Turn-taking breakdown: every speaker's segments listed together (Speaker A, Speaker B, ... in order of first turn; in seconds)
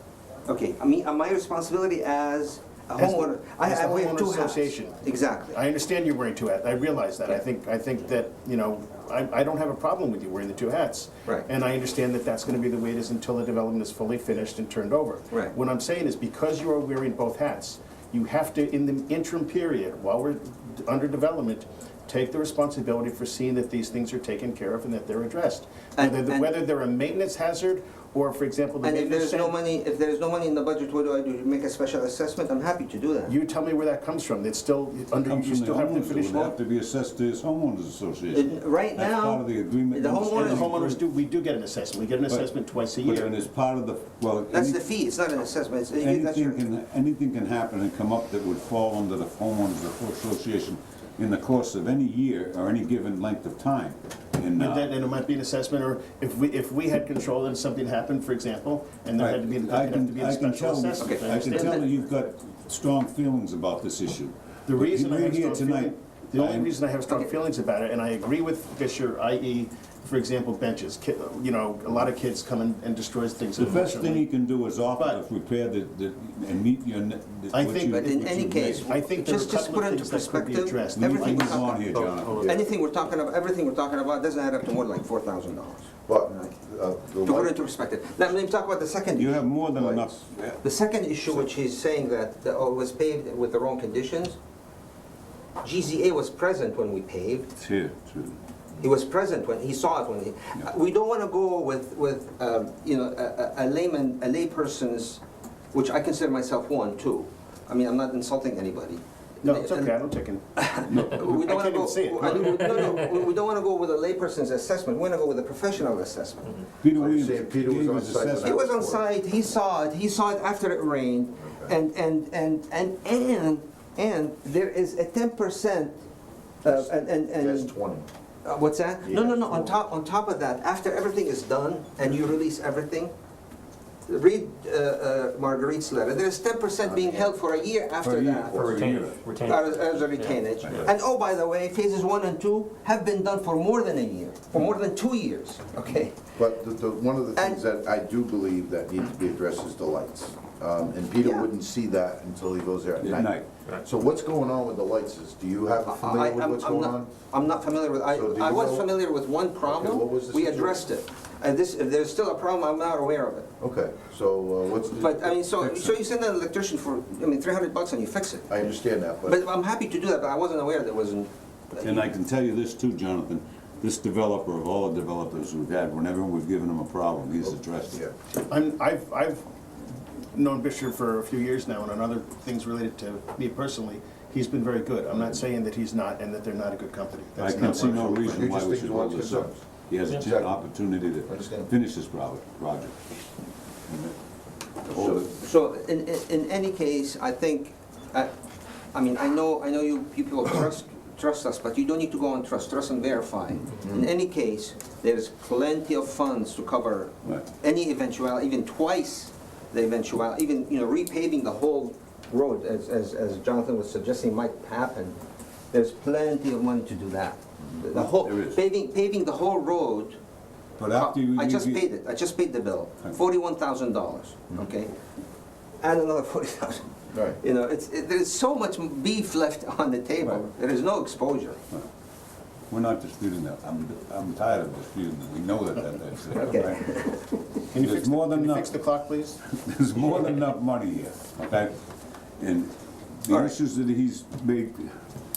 Speaker A: 0.5-5.6, 26.0-26.5, 28.8-33.4, 38.3-40.8, 44.5-46.6, 61.0-61.9, 77.9-81.8, 82.4-86.5, 87.2-89.4, 90.6-94.4, 95.6-97.5, 98.8-105.2, 105.7-109.9, 110.6-116.6, 118.4-126.0, 126.6-127.7, 128.4-133.1, 134.1-138.9, 139.4-146.3, 147.3-147.6, 151.2-151.5, 155.8-163.5, 164.9-168.5, 169.2-172.1, 195.3-198.3, 198.9-215.2, 215.7-220.2, 220.9-224.9, 225.8-231.6, 236.3-237.6, 243.3-243.6
Speaker B: 3.0-29.6, 33.3-36.5, 40.3-43.3, 54.6-62.1, 64.7-74.3, 75.0-75.2, 77.5-78.0, 78.8-81.8, 109.4-112.6, 178.4-179.5, 180.3-188.5, 237.7-239.4
Speaker C: 35.2-41.0, 42.3-44.8, 46.0-54.9, 59.2-66.7, 73.6-78.9, 81.0-82.5, 89.2-90.6, 97.6-98.4, 116.8-118.8, 138.0-139.2, 153.0-153.5, 165.6-165.9, 171.8-178.0, 187.4-193.0, 193.9-194.1, 194.8-195.3, 217.9-218.6, 220.8-221.8, 232.7-236.8, 237.7-238.8, 239.4-241.8, 242.4-244.9
Speaker D: 81.9-82.7, 138.5-140.9
Speaker E: 86.1-87.6, 89.8-90.2, 116.9-119.0, 127.3-128.1, 129.1-129.8, 136.8-137.3, 146.4-157.1, 158.1-159.0, 159.6-160.8, 163.6-165.4, 168.5-169.5, 187.7-189.6, 190.1-190.6, 191.3-191.7, 194.9-195.3, 203.8-204.1, 227.1-227.4